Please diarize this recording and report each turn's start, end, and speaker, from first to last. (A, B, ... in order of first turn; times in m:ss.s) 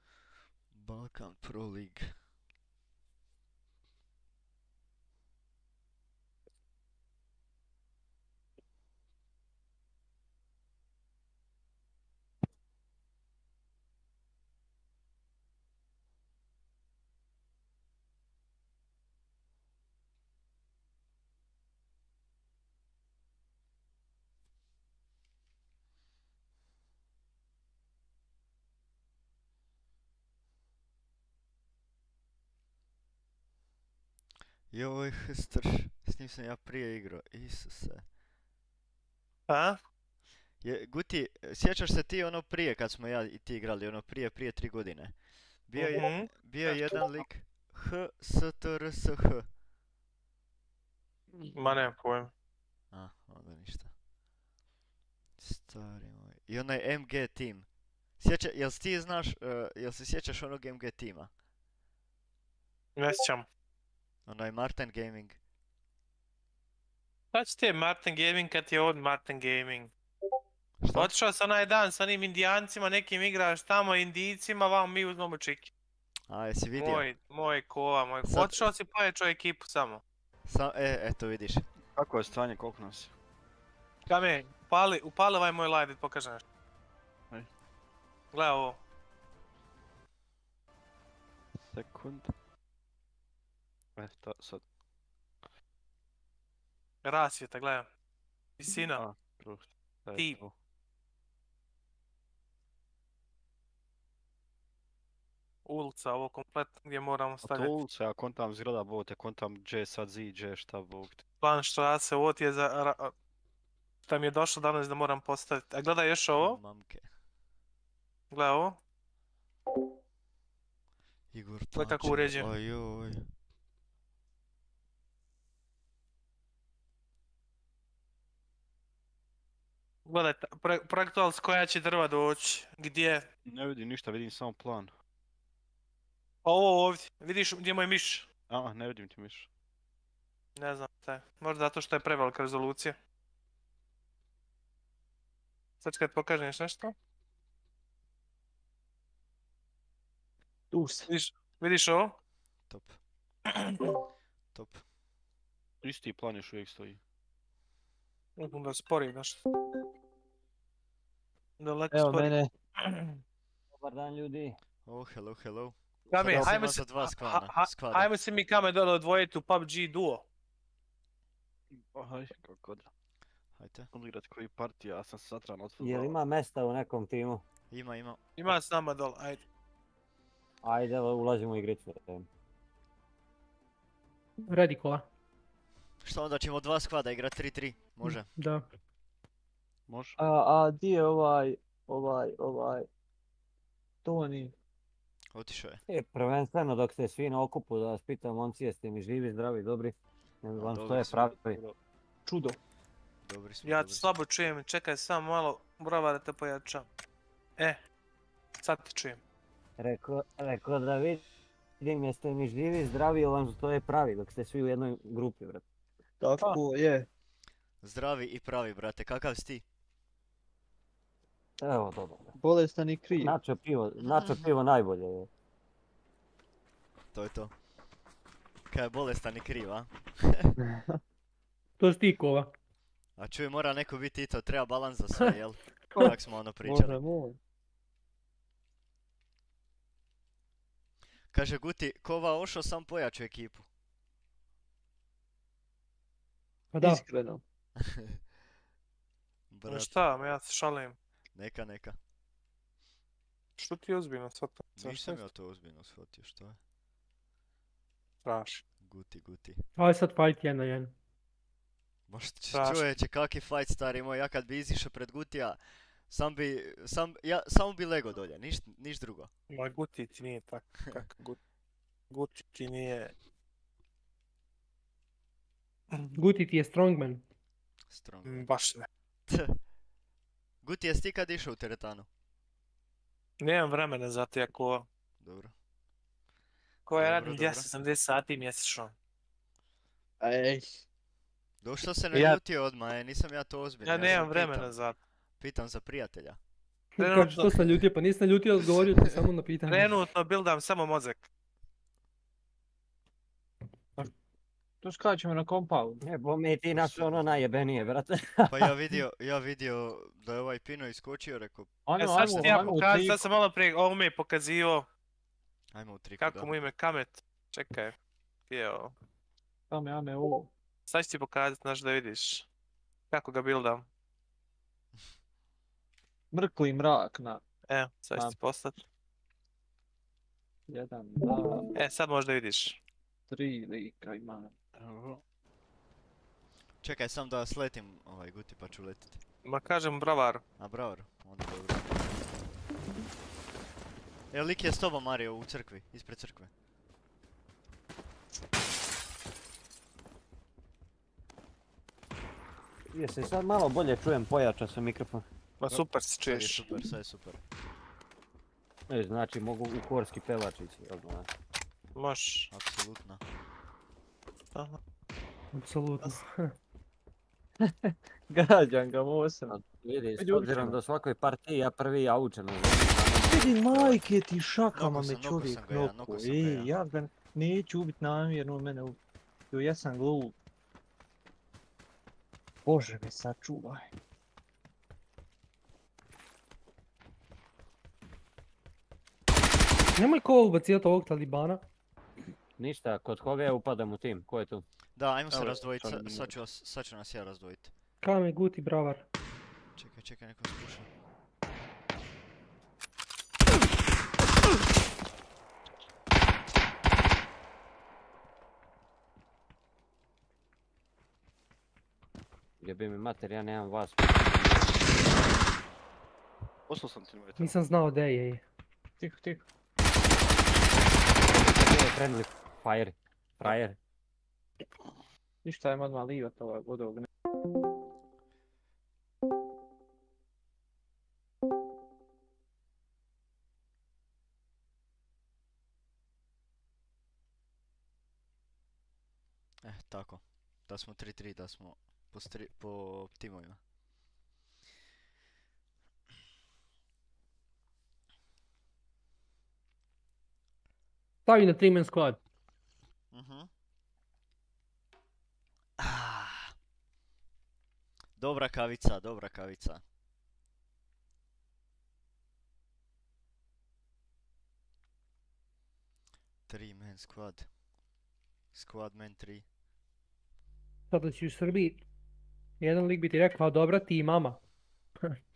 0:00.7-0:02.2 A
0:34.7-0:38.0 A
0:39.5-0:39.8 B
0:40.6-0:49.5 A
0:45.8-0:46.3 B
0:51.4-0:51.8 C
0:51.5-0:52.3 B
0:52.9-0:53.9 A
0:55.4-1:01.3 A
1:03.0-1:03.5 B
1:04.3-1:05.4 A
1:07.3-1:09.9 B
1:10.8-1:11.1 A
1:10.9-1:15.7 B
1:16.3-1:17.1 A
1:16.8-1:20.0 B
1:18.2-1:18.7 A
1:20.4-1:21.6 A
1:22.0-1:23.1 C
1:24.1-1:26.4 B
1:28.3-1:28.8 B
1:31.7-1:32.3 C
1:34.0-1:34.7 C
1:37.0-1:37.9 B
1:38.6-1:39.0 B
1:38.7-1:40.5 C
1:40.2-1:40.4 B
1:45.6-1:47.7 B
1:47.4-1:51.2 C
1:51.4-1:53.1 B
1:54.1-1:56.6 B
1:56.4-1:57.1 A
1:58.3-1:58.8 B
2:01.3-2:03.3 A
2:01.7-2:02.5 B
2:10.0-2:13.3 B
2:13.5-2:14.9 C
2:16.4-2:18.3 B
2:18.5-2:19.5 C
2:20.6-2:23.0 B
2:25.8-2:27.0 B
2:30.7-2:31.1 D
2:31.1-2:32.2 B
2:32.7-2:33.0 A
2:33.5-2:33.8 B
2:34.5-2:34.8 A
2:35.8-2:37.0 C
2:38.4-2:39.4 B
2:41.6-2:43.2 B
2:41.9-2:42.5 D
2:43.7-2:44.6 E
2:44.8-2:48.1 A
2:46.1-2:50.2 B
2:51.7-2:52.9 C
2:53.6-2:53.9 A
2:53.9-2:56.1 C
2:55.8-2:57.4 E
2:57.7-2:58.2 A
2:58.4-2:59.4 B
3:00.6-3:02.3 E
3:04.5-3:05.1 F
3:06.0-3:08.3 A
3:08.0-3:08.7 F
3:09.9-3:10.2 C
3:10.2-3:12.9 D
3:14.0-3:14.5 D
3:15.3-3:15.8 A
3:15.9-3:21.6 E
3:20.6-3:21.3 A
3:21.5-3:21.8 C
3:22.3-3:22.6 D
3:23.2-3:24.1 A
3:23.6-3:26.9 B
3:28.6-3:29.2 B
3:29.8-3:31.2 E
3:31.8-3:35.6 E
3:36.2-3:37.1 D
3:37.8-3:39.6 A
3:41.6-3:42.4 E
3:42.4-3:43.4 D
3:43.2-3:45.3 E
3:44.1-3:44.4 A
3:47.1-3:47.5 A
3:48.7-3:50.6 A
3:50.7-3:51.0 D
3:51.8-3:52.5 F
3:53.2-3:57.0 A
3:56.6-3:57.4 D
4:01.3-4:03.7 A
4:06.7-4:07.0 F
4:06.8-4:07.4 D
4:07.8-4:08.2 A
4:09.5-4:10.0 A
4:09.7-4:11.0 B
4:11.3-4:12.0 A
4:13.6-4:15.2 B
4:14.8-4:16.6 A
4:18.2-4:18.6 B
4:18.8-4:19.6 A
4:19.8-4:20.9 F
4:22.1-4:29.3 A
4:22.5-4:22.8 B
4:29.5-4:31.4 B
4:32.1-4:33.1 B
4:35.9-4:36.2 B
4:36.2-4:37.2 F
4:37.9-4:38.5 A
4:38.2-4:38.9 B
4:39.3-4:39.6 A
4:40.6-4:42.1 A
4:43.4-4:44.9 B
4:45.2-4:45.5 A
4:46.9-4:48.9 B
4:47.0-4:47.7 A
4:50.2-4:50.7 D
4:51.6-4:54.8 A
4:53.8-4:55.0 B
4:55.4-4:56.4 A
4:57.0-5:00.0 F
4:57.0-4:57.6 B
4:59.7-5:01.3 B
5:04.8-5:06.0 D
5:06.0-5:08.7 E
5:08.5-5:13.0 A
5:11.9-5:13.2 D
5:12.0-5:14.9 B
5:15.7-5:16.5 A
5:16.2-5:17.9 B
5:18.5-5:18.9 B
5:19.7-5:20.5 D
5:20.9-5:22.5 B
5:23.1-5:23.9 B
5:26.3-5:27.4 D
5:27.7-5:28.8 B
5:30.7-5:31.7 D
5:31.8-5:32.8 B
5:33.3-5:34.6 D
5:34.8-5:35.2 C
5:36.8-5:39.2 A
5:39.4-5:40.4 B
5:40.6-5:42.2 A
5:44.3-5:46.5 A
5:52.9-5:55.2 E
5:55.6-5:56.7 B
5:55.7-5:57.4 A
5:58.9-6:01.3 E
6:02.0-6:02.5 B
6:02.5-6:03.2 A
6:05.5-6:06.6 F
6:07.6-6:09.6 D
6:09.5-6:13.5 E
6:10.2-6:10.8 D
6:13.2-6:19.0 D
6:13.7-6:14.0 A
6:14.8-6:16.7 A
6:19.5-6:20.4 D
6:22.7-6:23.9 D
6:30.0-6:31.6 F
6:32.6-6:34.6 E
6:35.0-6:37.7 A
6:35.3-6:36.4 C
6:38.0-6:39.1 F
6:39.8-6:40.9 A
6:52.6-6:55.0 E
6:56.7-6:57.5 C
6:57.4-6:58.4 F
6:59.0-6:59.4 D
7:01.4-7:03.8 E
7:05.4-7:07.1 D
7:19.6-7:23.6 A
7:31.3-7:32.2 F
7:33.1-7:33.5 A
7:35.8-7:36.5 A
7:38.2-7:39.8 A
7:46.5-7:47.5 A
7:48.5-7:49.4 A
7:50.9-7:51.8 F
7:52.6-7:54.4 F